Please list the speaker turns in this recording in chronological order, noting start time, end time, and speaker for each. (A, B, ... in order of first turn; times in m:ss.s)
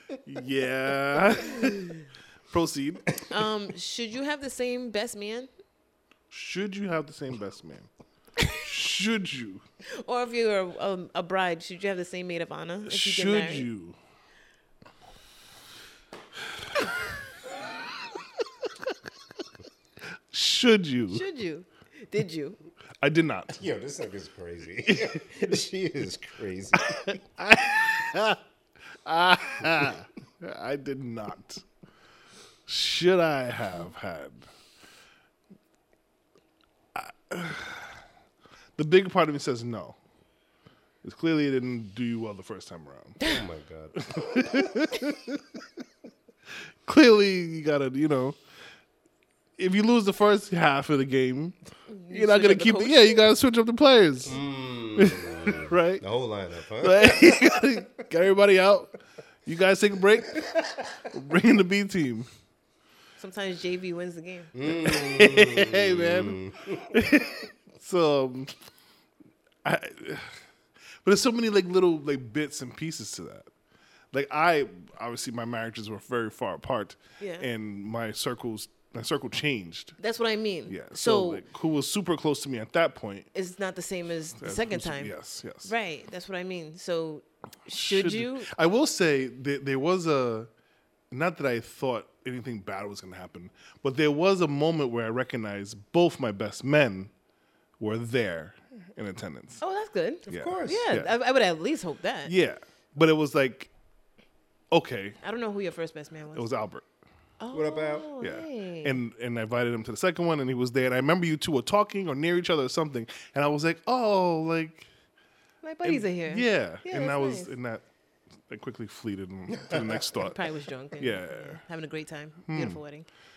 0:00.2-0:03.1 A
0:03.3-0:05.5 B
0:06.3-0:07.9 A
0:08.5-0:09.6 A
0:09.9-0:13.7 B
0:12.8-0:14.0 A
0:18.2-0:19.5 A
0:20.3-0:21.2 A
0:21.1-0:22.6 B
0:23.0-0:23.6 A
0:23.6-0:27.2 C
0:24.9-0:25.2 A
0:26.8-0:28.4 A
0:29.0-0:31.6 A
0:32.7-0:34.5 A
0:37.0-0:38.0 A
0:38.8-0:40.0 A
0:41.0-0:43.2 A
0:43.2-0:44.8 C
0:44.0-0:45.6 A
0:46.9-0:48.4 A
0:49.6-0:51.6 A
0:51.9-0:53.2 B
0:52.1-0:54.4 A
0:54.2-0:57.5 C
0:55.0-0:56.0 A
0:56.8-0:58.9 A
0:59.4-1:00.4 A
1:00.3-1:01.1 C
1:01.1-1:02.3 A
1:03.2-1:04.6 B
1:04.5-1:07.1 C
1:04.8-1:06.4 A
1:06.9-1:08.6 A
1:09.6-1:10.4 A
1:11.0-1:13.5 A
1:14.1-1:20.0 A
1:17.2-1:17.5 B
1:20.0-1:21.4 B
1:20.7-1:23.3 A
1:23.3-1:25.1 B
1:24.4-1:25.7 A
1:25.6-1:28.5 B
1:27.7-1:30.5 A
1:31.1-1:37.1 A
1:37.8-1:39.6 A
1:39.6-1:42.3 B
1:40.3-1:40.9 C
1:40.3-1:41.1 A
1:42.3-1:43.7 A
1:44.7-1:45.2 A
1:45.2-1:46.5 B
1:46.3-1:46.9 A
1:47.4-1:49.0 B
1:47.5-1:48.1 C
1:48.2-1:54.9 A
1:55.6-1:57.5 B
1:55.8-1:57.8 A
1:58.5-2:00.4 A
1:59.6-2:00.0 C
2:00.2-2:03.1 B
2:01.0-2:01.6 A
2:02.5-2:02.8 A